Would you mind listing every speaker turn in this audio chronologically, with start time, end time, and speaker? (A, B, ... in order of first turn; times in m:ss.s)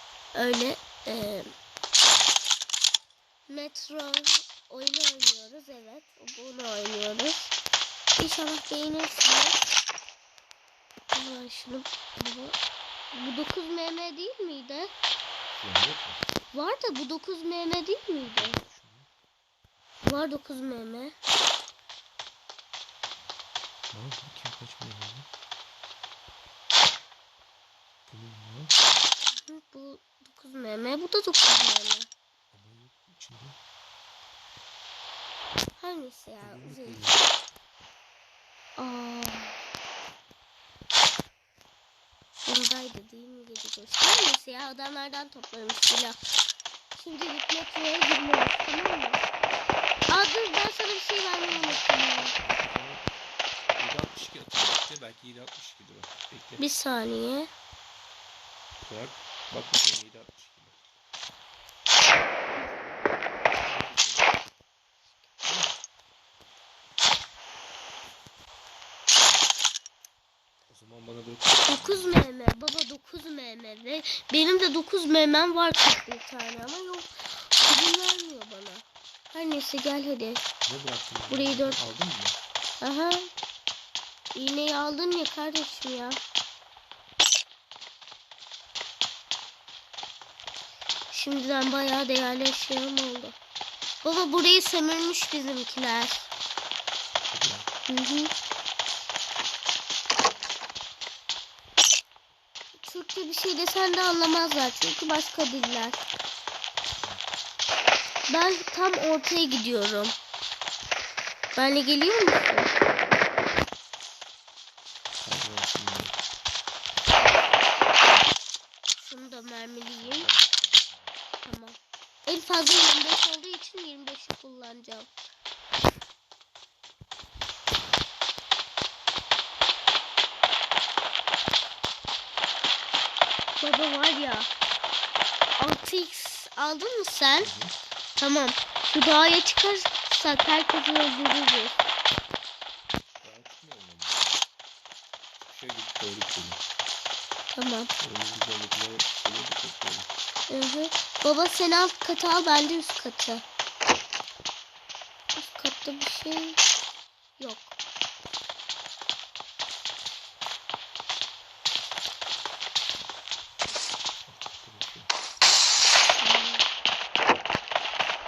0:00.3-0:01.5 A
0:03.5-0:07.5 A
0:08.2-0:09.7 A
0:11.1-0:12.6 A
0:13.1-0:14.9 A
0:15.6-0:16.3 B
0:16.5-0:18.6 A
0:18.2-0:19.1 B
0:20.0-0:21.1 A
0:23.9-0:25.3 B
0:28.1-0:28.8 B
0:29.4-0:32.1 A
0:32.5-0:33.6 B
0:35.8-0:37.0 A
0:36.4-0:37.2 B
0:38.8-0:39.6 A
0:42.4-0:46.2 A
0:46.9-0:49.2 A
0:50.1-0:52.3 A
0:51.5-0:53.0 B
0:53.8-0:56.6 B
0:56.6-0:57.5 A
0:58.8-1:00.8 B
1:03.6-1:04.4 B
1:05.4-1:05.8 B
1:10.7-1:12.2 B
1:11.6-1:20.4 A
1:20.6-1:22.4 B
1:21.3-1:21.8 A
1:22.8-1:23.3 A
1:24.3-1:26.2 A
1:31.1-1:33.4 A
1:34.0-1:36.3 A
1:37.3-1:37.7 B
1:37.9-1:38.3 A
1:42.8-1:46.1 A
1:47.0-1:47.3 B
1:48.3-1:50.1 A
1:51.5-1:52.8 A
1:55.2-1:56.1 B
1:59.0-2:00.3 A
2:00.0-2:01.1 B
2:01.4-2:05.1 A
2:13.6-2:14.5 A
2:15.6-2:17.6 A
2:17.4-2:17.8 B
2:18.2-2:21.8 A
2:23.2-2:24.2 B
2:25.5-2:26.6 B
2:27.5-2:27.9 A
2:28.0-2:30.1 B
2:30.5-2:33.4 A
2:35.3-2:36.6 A
2:37.4-2:37.7 A
2:44.3-2:45.1 B
2:46.2-2:46.6 A